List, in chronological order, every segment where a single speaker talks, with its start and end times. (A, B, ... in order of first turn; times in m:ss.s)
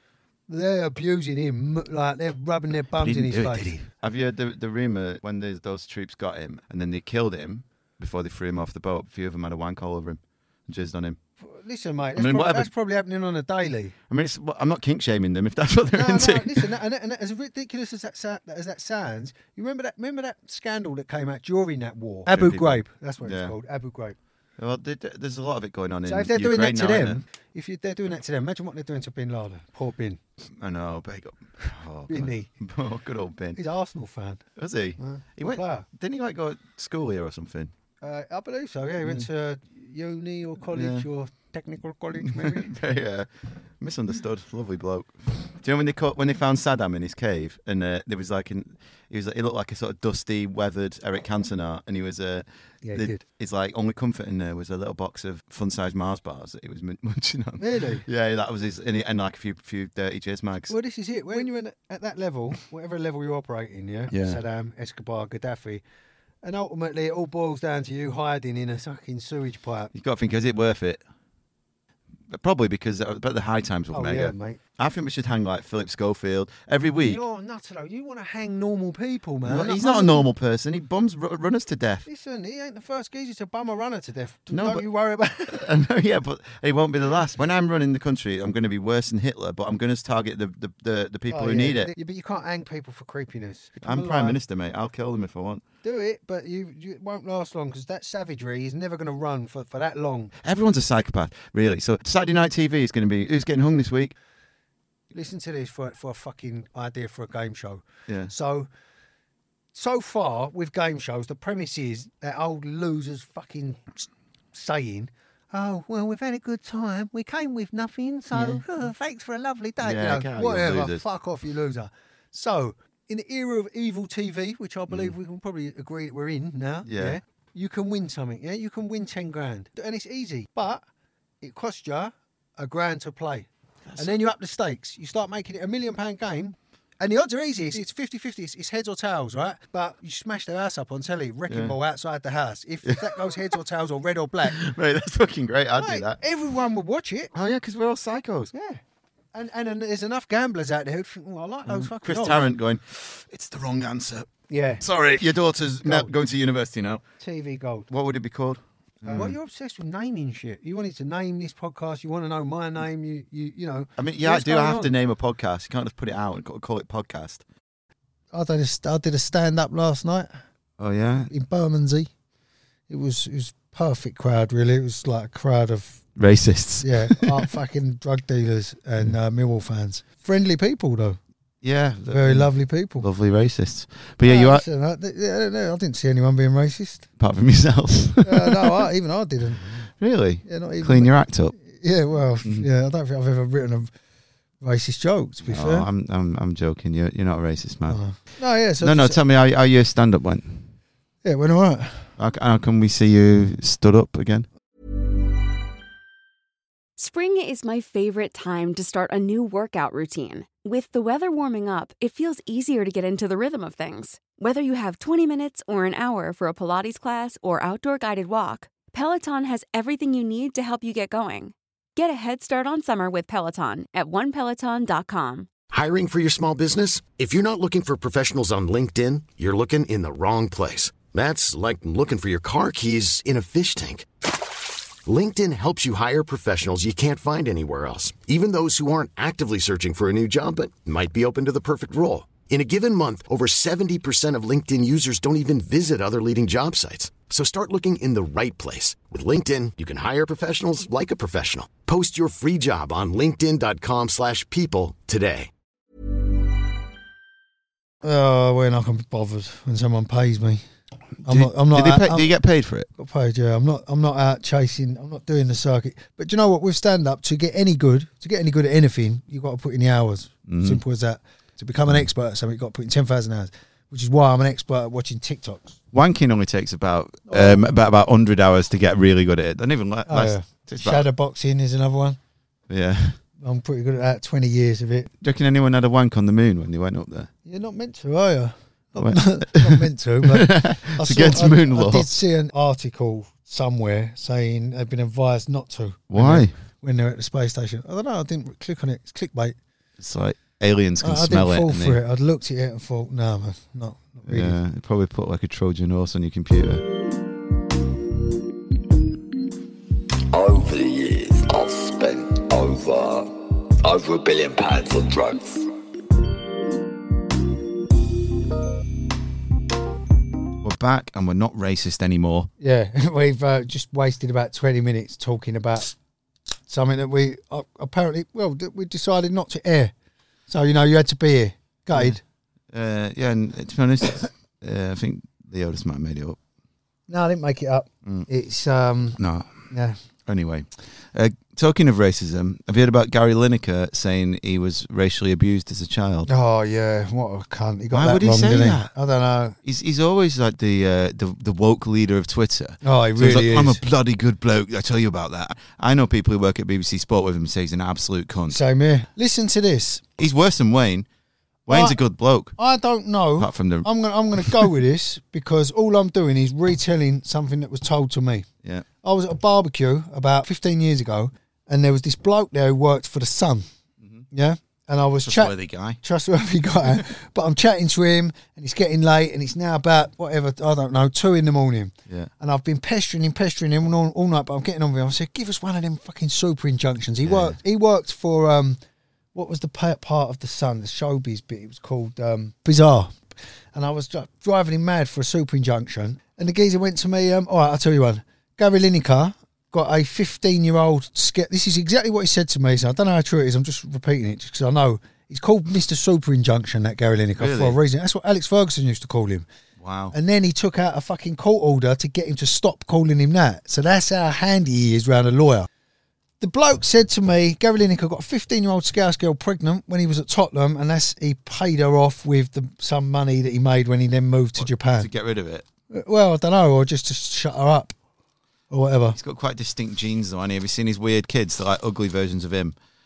0:00.5-0:03.8 A
0:02.9-0:11.2 B
0:11.4-0:14.0 A
0:12.2-0:12.7 B
0:14.1-0:16.7 B
0:15.9-0:24.2 A
0:22.3-0:23.5 B
0:24.6-0:27.2 B
0:26.1-0:30.2 A
0:30.6-0:33.6 B
0:32.1-0:32.5 A
0:33.6-0:34.4 A
0:34.6-0:37.7 B
0:35.0-0:35.8 A
0:38.0-0:42.7 A
0:40.7-0:41.1 B
0:42.2-1:00.7 B
0:52.8-0:53.2 A
0:57.6-0:58.0 A
1:00.7-1:05.8 A
1:04.1-1:04.4 B
1:06.4-1:09.9 A
1:09.9-1:11.0 B
1:12.3-1:17.2 B
1:13.9-1:14.6 A
1:17.0-1:20.3 A
1:19.4-1:22.1 B
1:22.0-1:25.7 A
1:24.5-1:24.8 B
1:25.4-1:31.9 B
1:31.3-1:34.4 A
1:33.8-1:35.6 B
1:35.8-1:40.3 A
1:40.4-1:44.1 B
1:45.1-1:48.7 A
1:49.7-2:10.8 A
1:58.3-1:58.6 B
1:59.8-2:01.0 B
2:04.9-2:05.1 B
2:06.8-2:07.2 B
2:11.4-2:24.6 A
2:21.5-2:21.8 B
2:22.8-2:23.4 B
2:24.4-2:26.2 B
2:25.8-2:27.3 A
2:27.3-2:28.5 B
2:28.5-2:28.8 A
2:29.3-2:32.5 A
2:31.6-2:34.3 B
2:34.5-2:34.8 A
2:34.8-2:37.0 B
2:35.8-2:36.1 A
2:37.2-2:37.9 A
2:37.9-2:39.4 B
2:39.1-2:44.9 A
2:44.0-2:47.4 B
2:48.3-2:50.4 A
2:50.8-2:51.3 B
2:51.3-2:52.1 A
2:52.9-2:56.0 A
2:56.2-2:57.5 B
2:56.8-3:01.2 A
3:01.6-3:04.6 B
3:02.1-3:03.1 A
3:04.2-3:07.1 A
3:07.2-3:08.8 B
3:08.2-3:09.8 A
3:09.6-3:11.5 B
3:10.4-3:13.9 A
3:12.4-3:12.7 B
3:14.6-3:15.9 A
3:15.4-3:18.2 B
3:17.9-3:19.2 A
3:18.8-3:20.7 B
3:21.2-3:22.1 A
3:22.2-3:24.5 B
3:27.0-3:45.5 C
3:45.7-3:54.1 D
3:55.0-4:15.5 D
4:18.0-4:20.6 A
4:21.2-4:22.3 A
4:21.3-4:22.9 B
4:22.9-4:35.8 A
4:30.5-4:30.8 B
4:35.9-4:41.0 B
4:37.3-4:37.6 A
4:40.1-4:42.2 A
4:42.7-4:43.2 B
4:43.4-4:45.1 A
4:45.2-4:47.3 B
4:47.4-4:59.6 A
4:49.0-4:52.1 B
4:56.1-4:56.5 B
5:00.0-5:02.0 B
5:01.0-5:04.6 A
5:04.3-5:06.8 B
5:10.3-5:15.7 E
5:20.6-5:22.5 B
5:22.6-5:25.9 A
5:26.7-5:29.9 A
5:30.5-5:32.2 A
5:31.9-5:32.2 B
5:32.7-5:36.4 B
5:37.1-5:40.0 A
5:39.2-5:39.6 B
5:40.2-5:46.3 B
5:46.2-5:49.6 A
5:47.9-5:48.9 B
5:49.6-5:58.6 B
5:52.8-5:53.8 A
5:58.5-6:00.0 A
6:00.2-6:01.1 B
6:01.7-6:02.6 B
6:01.7-6:02.0 A
6:02.6-6:08.4 A
6:03.4-6:03.9 B
6:09.0-6:13.7 A
6:14.3-6:28.8 A
6:15.2-6:16.0 B
6:27.2-6:27.6 B
6:29.3-6:33.2 A
6:33.7-6:49.4 A
6:47.4-6:47.8 B
6:49.8-6:50.1 B
6:50.1-6:55.7 A
6:56.4-7:05.1 A
7:04.6-7:05.6 B
7:05.9-7:07.9 A
7:08.7-7:09.2 A
7:09.1-7:12.8 B